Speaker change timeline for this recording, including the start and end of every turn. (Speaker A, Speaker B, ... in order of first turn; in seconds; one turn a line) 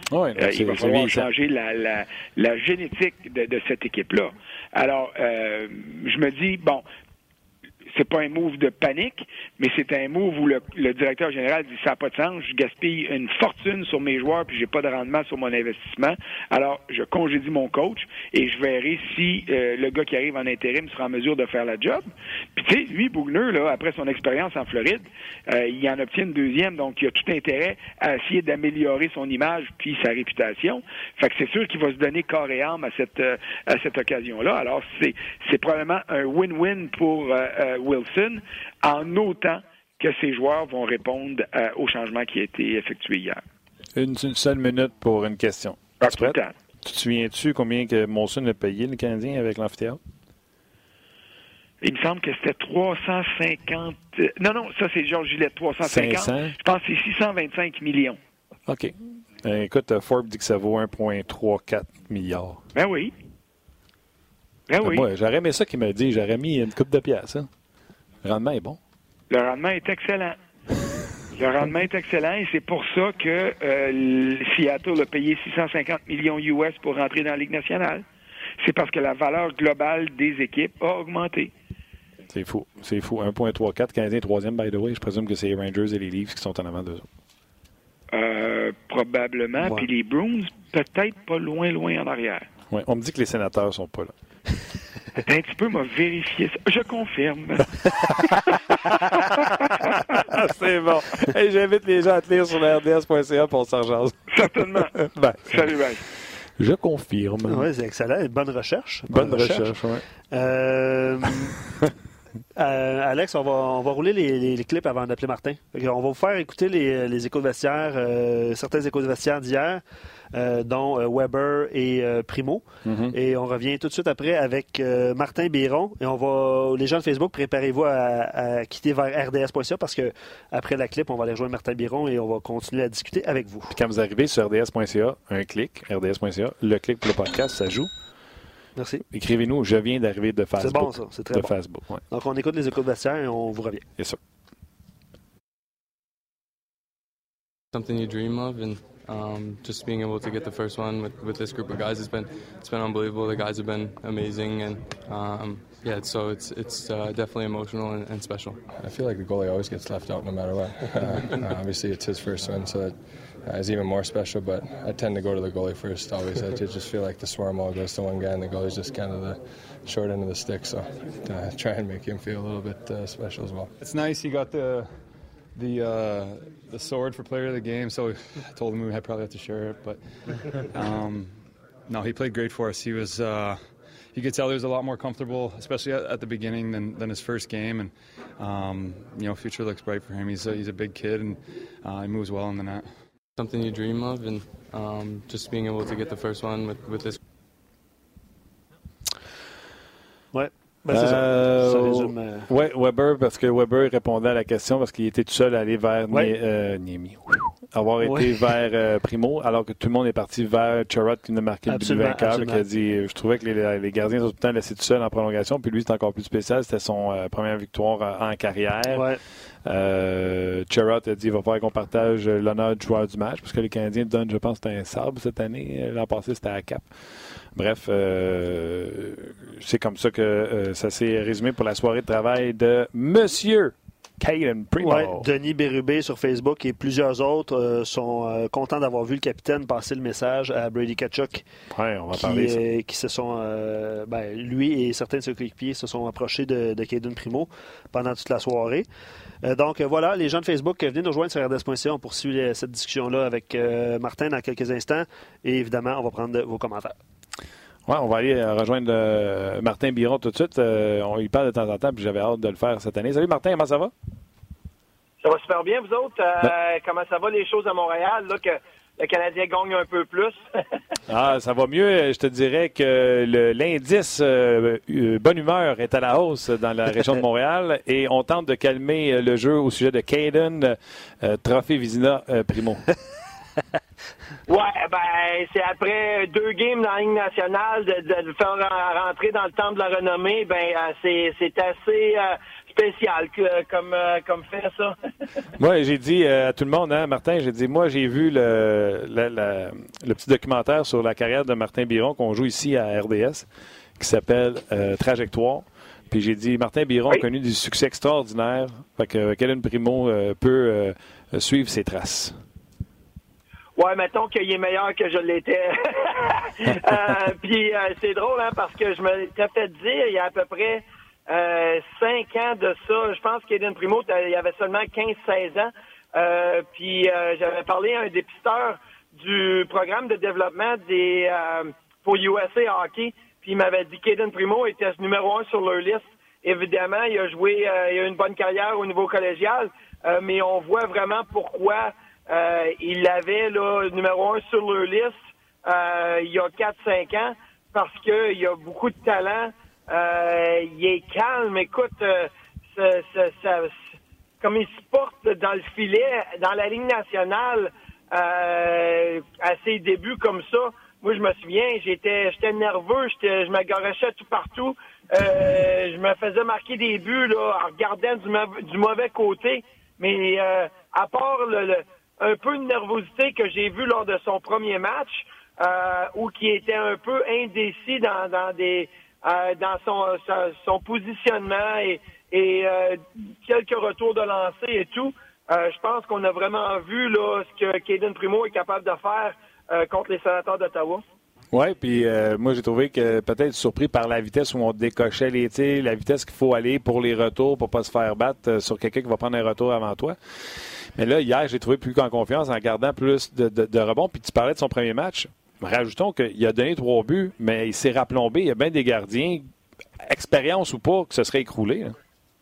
Speaker A: 0.1-1.3
Speaker B: 0.4-6.8
Speaker B: 7.9-43.4
Speaker A: 44.0-50.0
Speaker B: 46.0-46.5
Speaker B: 51.8-58.2
Speaker A: 55.8-56.5
Speaker A: 58.7-62.6
Speaker B: 62.8-63.1
Speaker B: 64.7-65.1
Speaker A: 64.8-67.5
Speaker A: 68.2-68.8
Speaker B: 69.3-70.4
Speaker B: 71.4-78.0
Speaker B: 78.6-81.5
Speaker A: 82.3-87.1
Speaker B: 88.1-92.5
Speaker A: 92.7-94.1
Speaker B: 95.2-97.9
Speaker A: 99.3-105.7
Speaker B: 104.3-104.9
Speaker B: 105.5-106.0
Speaker A: 106.6-107.7
Speaker C: 107.5-109.8
Speaker A: 109.1-110.0
Speaker C: 110.3-111.5
Speaker C: 112.5-133.8
Speaker A: 122.8-123.1
Speaker A: 133.7-137.9
Speaker C: 138.8-139.0
Speaker A: 139.1-142.0
Speaker C: 140.6-141.5
Speaker C: 142.1-143.8
Speaker D: 147.7-158.6
Speaker E: 158.7-173.7
Speaker F: 173.8-174.9
Speaker F: 175.6-180.0
Speaker F: 180.7-181.3
Speaker F: 181.9-183.6
Speaker F: 184.1-192.9
Speaker D: 193.4-197.2
Speaker C: 200.3-202.5
Speaker A: 200.9-219.1
Speaker C: 208.0-208.5
Speaker C: 211.7-212.7
Speaker C: 218.9-219.2
Speaker A: 219.7-226.9
Speaker A: 227.6-235.3
Speaker C: 234.8-241.4
Speaker A: 241.7-242.6
Speaker C: 242.1-248.9
Speaker C: 249.4-257.0
Speaker A: 257.9-263.9
Speaker G: 265.2-270.8
Speaker A: 271.1-282.9
Speaker G: 284.5-295.0
Speaker A: 295.6-303.5
Speaker A: 304.0-312.4
Speaker G: 313.8-391.0
Speaker A: 391.5-400.2
Speaker A: 401.0-409.5
Speaker A: 410.0-411.9